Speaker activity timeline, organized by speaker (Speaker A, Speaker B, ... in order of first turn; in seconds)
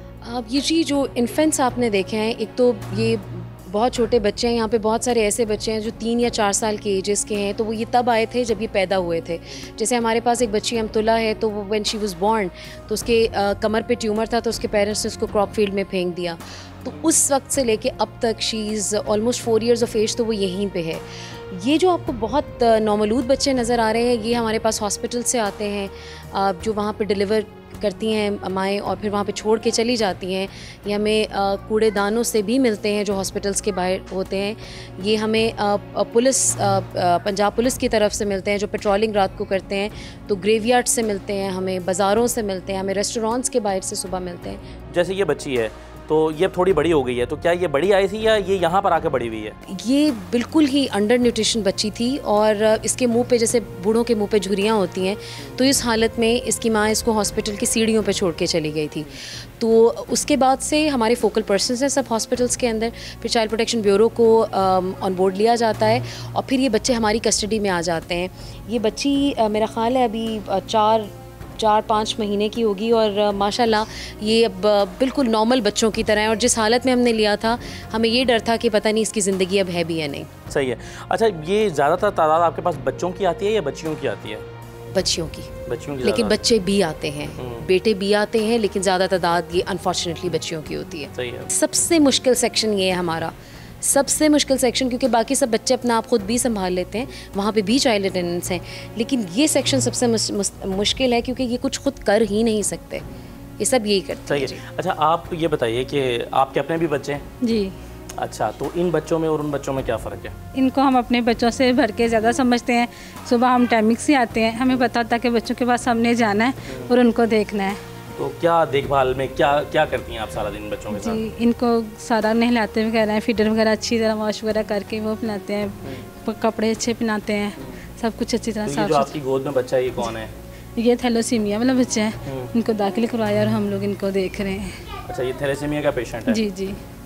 Speaker A: 0.2-44.6, 49.7-80.3, 84.9-85.5, 86.0-103.1, 103.6-104.6
Speaker B: 44.9-49.6, 80.5-84.5, 85.7-86.4, 87.4-87.7, 91.2-91.5, 104.3-107.2, 108.2-110.4, 118.2-121.2, 128.7-130.3, 132.3-132.5, 135.1-136.4
Speaker C: 107.4-107.7, 110.5-117.8, 120.9-129.1, 130.8-134.8, 136.3-136.8